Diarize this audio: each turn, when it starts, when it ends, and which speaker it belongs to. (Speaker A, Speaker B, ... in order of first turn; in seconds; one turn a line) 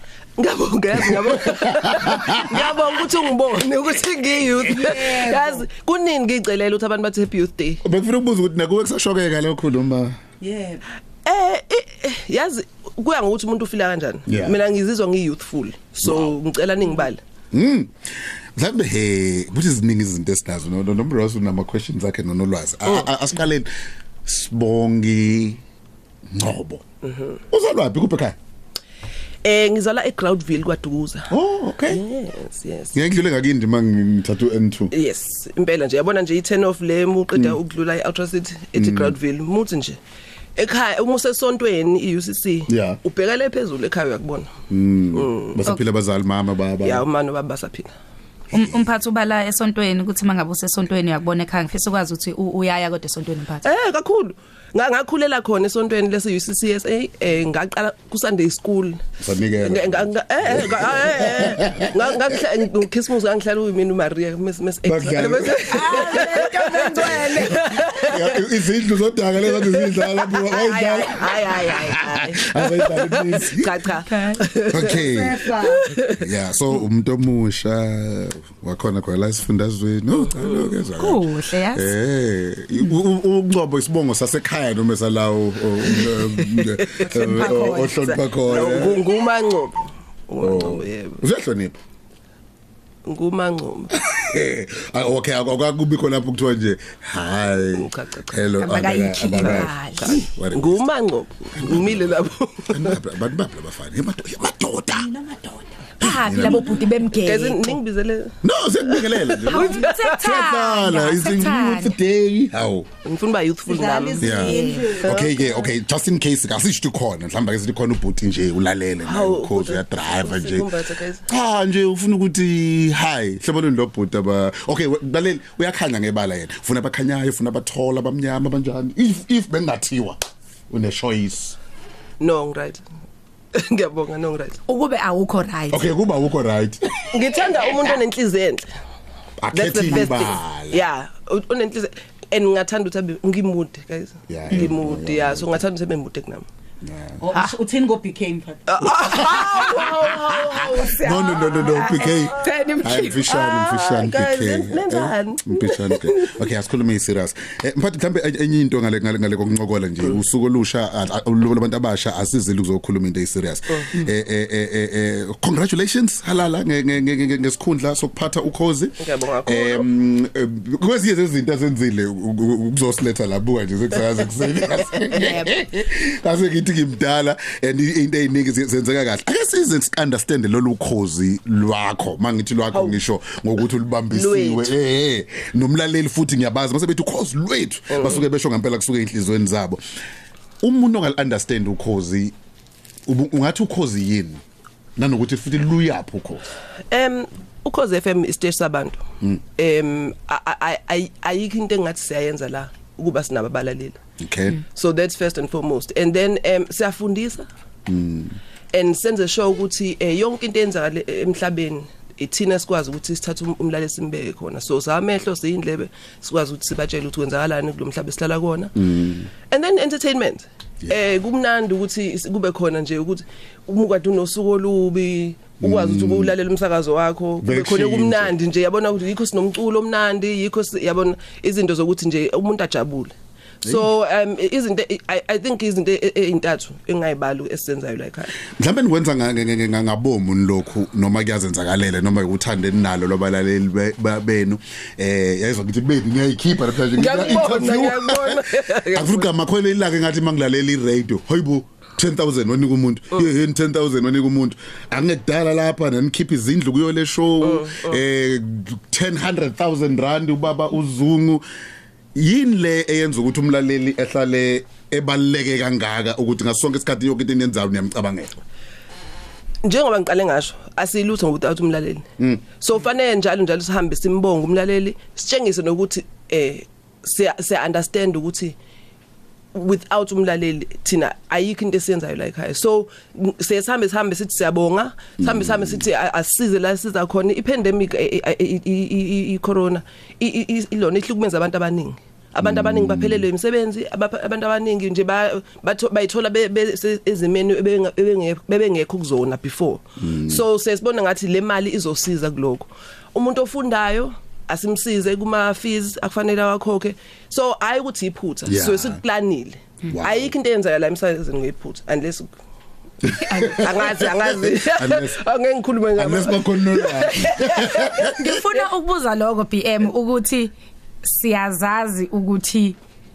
Speaker A: 0.4-7.8
Speaker B: 1.1-2.7
Speaker C: 4.8-5.6
Speaker B: 7.8-10.2
Speaker C: 10.4-10.8
Speaker A: 11.2-17.2
Speaker B: 14.3-14.6
Speaker B: 16.0-16.4
Speaker B: 17.5-17.9
Speaker B: 18.6-23.7
Speaker B: 24.3-25.6
Speaker B: 26.3-26.8
Speaker A: 27.1-27.4
Speaker B: 27.5-28.4
Speaker A: 29.4-31.3
Speaker B: 31.3-32.0
Speaker A: 31.9-33.0
Speaker B: 32.9-34.9
Speaker A: 34.9-40.0
Speaker B: 38.7-39.1
Speaker A: 40.5-44.5
Speaker B: 42.7-43.0
Speaker B: 44.7-47.0
Speaker A: 45.1-45.6
Speaker A: 46.8-47.9
Speaker D: 48.5-53.6
Speaker A: 53.6-59.0
Speaker B: 59.2-62.0
Speaker A: 59.6-68.4
Speaker B: 64.8-66.2
Speaker D: 65.7-68.2
Speaker B: 67.8-73.7
Speaker A: 69.4-76.2
Speaker D: 74.1-74.4
Speaker B: 74.7-75.4
Speaker C: 74.9-75.8
Speaker B: 76.2-89.0
Speaker A: 80.3-80.8
Speaker D: 81.0-81.9
Speaker A: 85.9-91.2
Speaker D: 87.1-87.9
Speaker B: 90.4-91.8
Speaker A: 93.1-93.9
Speaker B: 94.0-100.9
Speaker A: 97.5-98.6
Speaker D: 98.6-100.2
Speaker A: 99.2-103.0
Speaker B: 101.6-102.1
Speaker B: 102.7-105.1
Speaker C: 104.9-105.9
Speaker D: 106.0-107.8
Speaker B: 106.0-106.8
Speaker A: 107.2-110.2
Speaker B: 108.4-112.9
Speaker D: 109.5-111.9
Speaker A: 113.0-115.3
Speaker C: 113.7-115.7
Speaker D: 114.0-115.1
Speaker B: 114.2-120.7
Speaker A: 119.0-121.3
Speaker B: 121.3-130.2
Speaker B: 130.7-131.6
Speaker A: 132.2-132.8
Speaker A: 133.5-134.6
Speaker D: 134.7-135.9
Speaker B: 135.7-137.1
Speaker A: 137.1-138.7
Speaker B: 139.4-140.8
Speaker A: 139.5-146.4
Speaker B: 144.3-145.6
Speaker B: 146.8-147.2
Speaker C: 147.2-148.9
Speaker A: 148.7-150.9
Speaker D: 149.4-153.2
Speaker B: 150.6-189.8
Speaker A: 153.3-156.5
Speaker A: 169.0-169.8
Speaker A: 182.7-183.0
Speaker A: 184.1-184.7
Speaker A: 187.9-188.2
Speaker B: 190.6-192.3
Speaker B: 193.1-194.4
Speaker B: 195.0-196.4
Speaker A: 196.9-199.0
Speaker A: 199.6-204.0
Speaker B: 204.2-204.6
Speaker A: 204.7-207.5
Speaker B: 207.9-208.4
Speaker A: 208.7-218.7
Speaker B: 218.8-219.3
Speaker A: 219.5-238.3
Speaker B: 220.8-221.1
Speaker B: 225.6-226.3
Speaker B: 227.4-228.3
Speaker B: 238.6-248.4
Speaker A: 246.9-249.3
Speaker B: 248.9-261.4
Speaker A: 257.4-258.0
Speaker B: 262.1-268.3
Speaker A: 269.6-272.1
Speaker B: 272.2-272.4
Speaker A: 272.6-278.6
Speaker A: 279.5-312.4
Speaker B: 285.2-285.8
Speaker B: 292.4-293.2
Speaker B: 300.0-300.4
Speaker B: 308.5-309.0
Speaker B: 309.9-310.3
Speaker B: 313.1-313.7
Speaker A: 313.3-318.6
Speaker B: 314.5-315.2
Speaker B: 316.0-318.2
Speaker D: 318.1-322.8